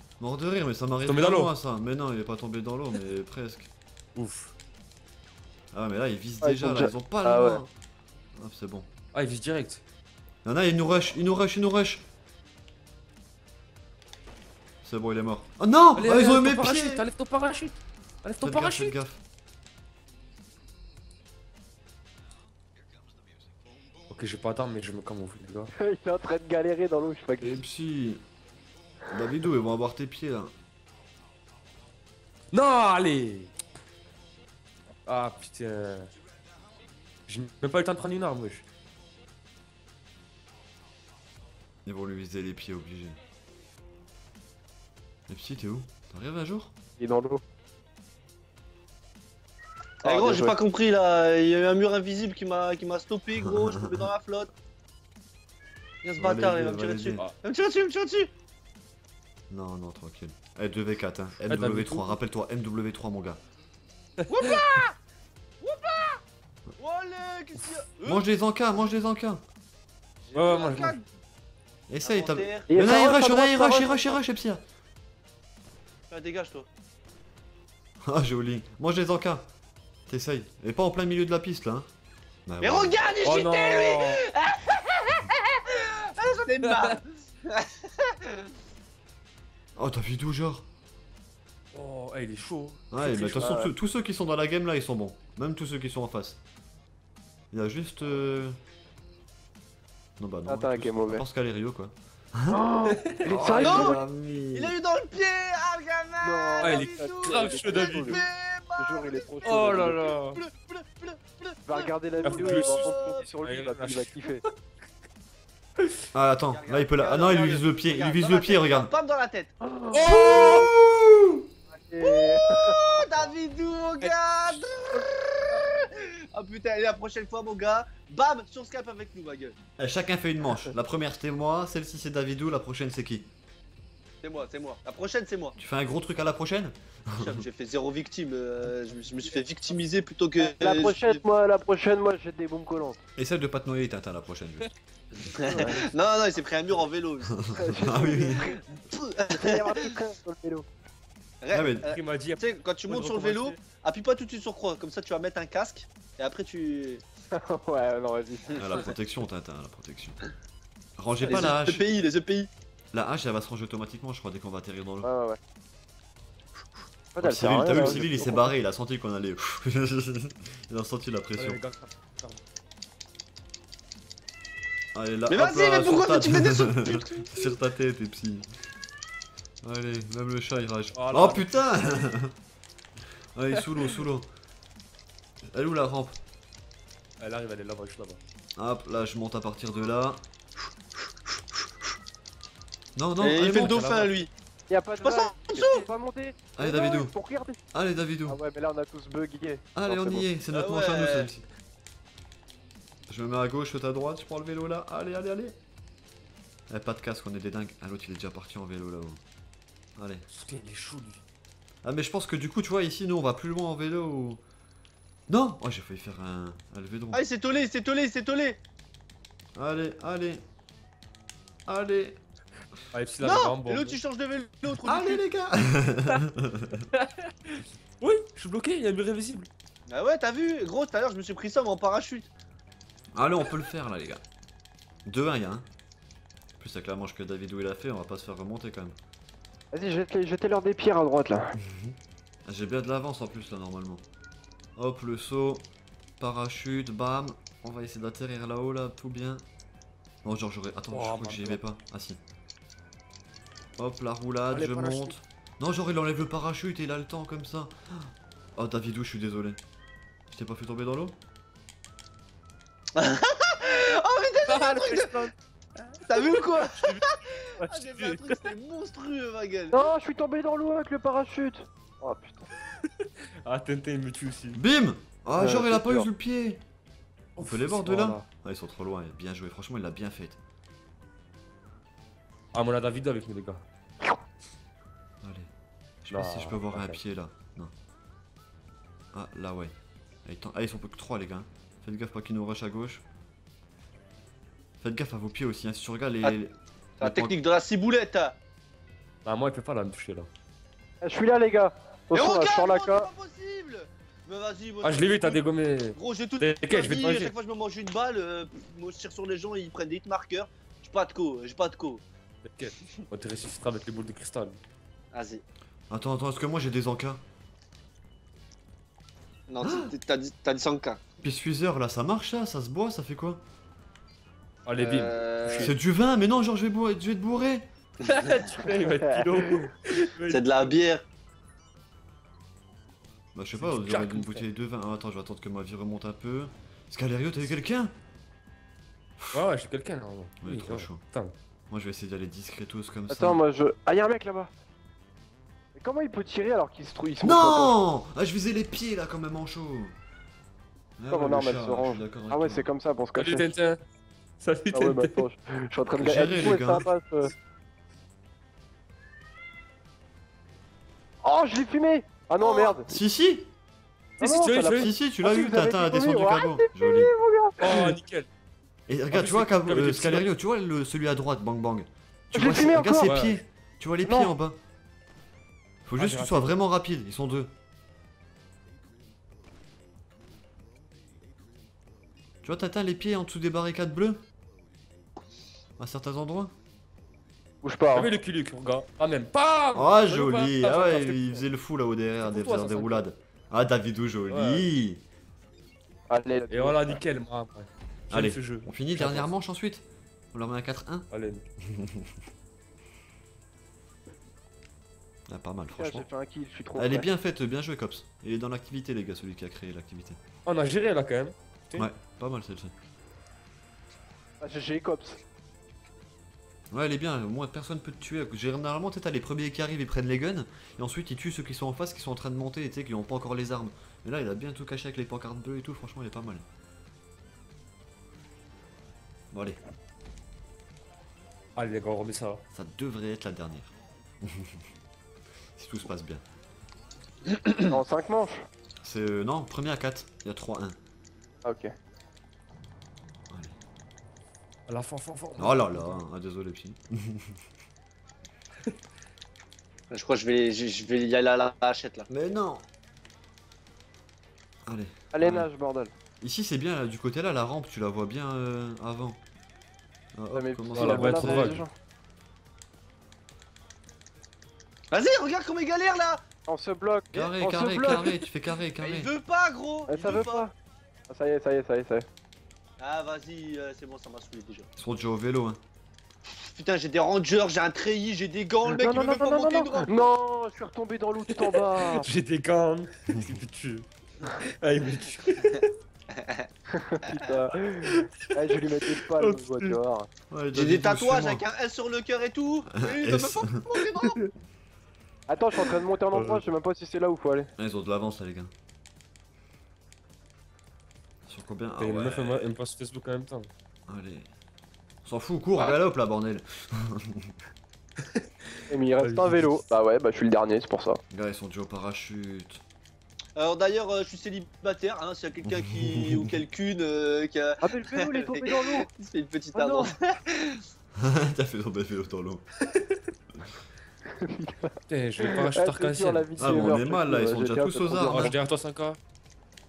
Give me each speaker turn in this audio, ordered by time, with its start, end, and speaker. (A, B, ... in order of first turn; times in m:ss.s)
0:00.2-0:03.7 A
0:01.1-0:01.5 B
0:04.2-0:04.5 B
0:05.7-0:07.7 A
0:06.4-0:07.6 C
0:08.4-0:08.9 A
0:09.1-0:09.8 B
0:10.4-0:12.0 A
0:14.8-0:17.0 A
0:16.0-0:19.0 B
0:18.4-0:19.2 A
0:24.1-0:25.7 B
0:25.8-0:27.6 C
0:27.4-0:28.2 A
0:29.1-0:30.5 A
0:32.5-0:33.5 B
0:35.1-0:36.1 B
0:37.3-0:38.6 B
0:41.8-0:43.2 A
0:45.3-0:46.7 A
0:47.0-0:47.4 C
0:50.0-0:54.5 D
0:50.0-0:50.6 C
0:53.4-0:54.1 A
0:56.0-0:58.3 D
0:56.2-0:57.2 A
0:59.5-1:03.4 A
1:01.5-1:02.2 B
1:04.2-1:04.7 B
1:04.3-1:04.9 D
1:05.6-1:06.2 D
1:06.8-1:08.2 D
1:08.0-1:09.4 A
1:10.2-1:11.0 D
1:10.4-1:11.0 B
1:11.9-1:14.6 A
1:12.0-1:12.8 D
1:12.7-1:14.0 C
1:16.1-1:16.7 D
1:18.0-1:19.5 A
1:20.1-1:21.9 A
1:22.5-1:23.1 A
1:22.6-1:28.5 D
1:23.2-1:24.3 B
1:26.5-1:27.0 B
1:29.8-1:30.6 A
1:31.7-1:32.8 B
1:32.9-1:36.4 A
1:33.0-1:33.7 C
1:37.5-1:38.6 A
1:40.2-1:42.6 A
1:40.5-1:41.2 C
1:42.5-1:44.0 C
1:42.9-1:43.6 B
1:43.2-1:44.7 A
1:43.6-1:53.3 D
1:46.2-1:48.2 C
1:46.6-1:48.2 B
1:48.8-1:50.1 C
1:49.4-1:50.4 B
1:51.7-1:54.4 C
1:52.2-1:54.5 B
1:56.1-1:58.9 A
1:56.5-1:59.5 D
1:59.6-2:00.7 C
1:59.9-2:00.6 B
2:00.0-2:01.5 A
2:01.7-2:03.0 C
2:02.0-2:09.6 D
2:04.0-2:04.7 B
2:09.8-2:13.3 A
2:14.2-2:15.6 D
2:15.6-2:17.4 A
2:17.2-2:21.2 D
2:20.4-2:23.0 C
2:23.2-2:24.7 A
2:25.2-2:30.0 D
2:25.4-2:25.9 C
2:27.3-2:28.6 A
2:27.5-2:28.6 C
2:29.3-2:30.7 C
2:31.4-2:37.0 D
2:31.5-2:31.9 A
2:31.8-2:33.6 B
2:37.3-2:38.6 C
2:38.5-2:40.2 A
2:41.0-2:41.8 A
2:41.2-2:42.5 D
2:42.9-2:45.1 A
2:45.0-2:45.4 C
2:47.2-2:48.5 C
2:47.2-2:51.6 A
2:47.7-2:48.1 B
2:51.4-2:52.4 B
2:54.9-2:58.5 A
2:55.3-2:57.6 D
2:59.6-3:02.3 A
3:00.9-3:02.0 B
3:03.4-3:04.3 A
3:05.5-3:06.2 A
3:07.2-3:08.2 B
3:08.6-3:10.2 A
3:13.0-3:13.8 A
3:13.2-3:14.3 D
3:13.4-3:14.3 B
3:14.7-3:17.6 C
3:15.0-3:15.9 D
3:16.6-3:17.1 A
3:17.7-3:18.4 A
3:18.3-3:20.3 C
3:19.8-3:21.4 A
3:20.5-3:21.3 D
3:23.1-3:25.6 A
3:26.7-3:29.2 A
3:30.0-3:30.3 A
3:30.3-3:31.2 B
3:31.8-3:34.4 A
3:35.3-3:37.2 A
3:37.1-3:38.6 D
3:39.6-3:40.4 A
3:41.7-3:42.2 A
3:42.9-3:44.0 B
3:43.2-3:45.2 D
3:44.8-3:46.9 A
3:46.9-3:49.5 B
3:49.9-3:52.3 D
3:53.1-3:54.2 A
3:55.1-3:55.6 A
3:56.6-3:59.0 A
3:59.7-4:01.6 C
4:01.6-4:04.0 A
4:04.8-4:05.7 A
4:06.2-4:09.4 A
4:10.2-4:12.2 A
4:10.9-4:11.6 B
4:13.8-4:19.6 A
4:14.5-4:15.2 B
4:20.3-4:21.2 A
4:23.0-4:25.2 D
4:24.5-4:25.3 B
4:26.0-4:29.8 D
4:26.4-4:28.5 B
4:29.7-4:32.5 C
4:32.8-4:34.6 B
4:34.6-4:36.6 A
4:35.4-4:36.1 C
4:37.4-4:38.3 B
4:37.4-4:40.4 A
4:42.5-4:43.6 B
4:45.2-4:45.5 A
4:46.0-4:47.7 A
4:46.1-4:47.0 B
4:49.1-4:49.7 A
4:50.2-4:53.0 A
4:54.8-4:57.4 A
4:57.0-4:58.4 D
4:59.2-5:00.3 B
5:01.0-5:03.1 C
5:02.1-5:05.4 D
5:04.8-5:07.3 B
5:06.0-5:12.0 D
5:12.4-5:14.6 B
5:15.1-5:15.4 D
5:15.9-5:17.2 A
5:19.5-5:21.0 D
5:19.6-5:19.9 A
5:21.2-5:23.4 A
5:24.7-5:25.7 B
5:24.8-5:25.7 D
5:25.6-5:27.7 A
5:28.0-5:28.6 D
5:28.0-5:30.8 B
5:28.7-5:29.7 C
5:30.3-5:31.0 D
5:33.4-5:37.9 A
5:33.5-5:34.4 B
5:39.2-5:39.4 A
5:39.3-5:41.3 B
5:40.4-5:41.0 A
5:41.7-5:43.4 A
5:43.1-5:44.5 C
5:45.8-5:47.8 C
5:47.2-5:50.0 A
5:51.0-5:52.7 A
5:51.1-5:53.5 C
5:53.2-5:53.8 B
5:54.4-5:55.2 B
5:54.7-5:57.3 C
5:55.9-5:56.9 A
6:01.2-6:02.9 C
6:02.4-6:02.8 D
6:02.9-6:03.5 A
6:04.2-6:04.9 B
6:04.2-6:08.0 C
6:04.7-6:07.1 A
6:07.6-6:08.3 B
6:08.9-6:14.6 A
6:09.1-6:10.3 B
6:12.3-6:13.1 C
6:13.0-6:13.4 B
6:14.0-6:14.3 C
6:15.9-6:17.5 A
6:16.0-6:16.5 B
6:22.4-6:24.2 A
6:25.8-6:26.5 A
6:27.6-6:28.1 C
6:27.9-6:31.4 B
6:29.8-6:35.0 A
6:32.2-6:33.0 B
6:34.3-6:34.6 B
6:36.1-6:37.0 C
6:36.5-6:39.3 B
6:38.1-6:41.1 A
6:41.1-6:41.5 B
6:41.6-6:42.1 A
6:45.3-6:46.1 A
6:45.8-6:47.1 C
6:46.8-6:50.2 A
6:50.5-6:51.9 B
6:51.7-6:52.7 A
6:54.4-6:55.2 C
6:56.7-7:06.4 A
7:09.3-7:09.6 A
7:11.6-7:12.4 B
7:12.5-7:14.6 A
7:15.6-7:16.2 A
7:17.6-7:18.5 C
7:18.8-7:20.8 A
7:21.4-7:21.7 C
7:23.3-7:23.6 A
7:24.7-7:26.0 B
7:25.4-7:27.4 A
7:29.9-7:32.1 D
7:32.1-7:32.7 A
7:34.7-7:35.5 A
7:35.1-7:35.9 C
7:36.2-7:39.2 A
7:40.2-7:41.7 A
7:40.3-7:41.7 C
7:40.8-7:41.6 B
7:44.9-7:46.2 D
7:46.5-7:48.3 C
7:47.1-7:49.1 A
7:48.8-7:50.5 D
7:49.9-7:50.5 C
7:51.1-7:52.1 C
7:52.8-7:54.7 D
7:54.8-7:55.6 A
7:56.4-8:00.1 D
7:58.7-8:02.1 C
8:01.3-8:05.8 B
8:03.1-8:03.4 A
8:06.1-8:06.5 D
8:06.7-8:10.1 C
8:07.0-8:07.4 D
8:07.8-8:09.8 B
8:10.3-8:11.4 A
8:10.5-8:14.2 D
8:12.7-8:13.6 A
8:14.0-8:14.3 B
8:15.3-8:17.5 C
8:16.1-8:16.4 B
8:17.6-8:18.5 A
8:21.3-8:22.5 A
8:21.8-8:23.5 B
8:23.9-8:24.3 A
8:25.0-8:27.4 A
8:28.0-8:29.6 B
8:28.7-8:31.0 C
8:31.1-8:32.6 A
8:33.4-8:40.6 D
8:35.4-8:36.4 A
8:37.6-8:38.9 C
8:39.5-8:39.9 C
8:41.0-8:42.5 A
8:42.7-8:43.0 B
8:44.1-8:48.3 C
8:44.9-8:46.3 B
8:46.4-8:48.4 A
8:48.1-8:49.0 B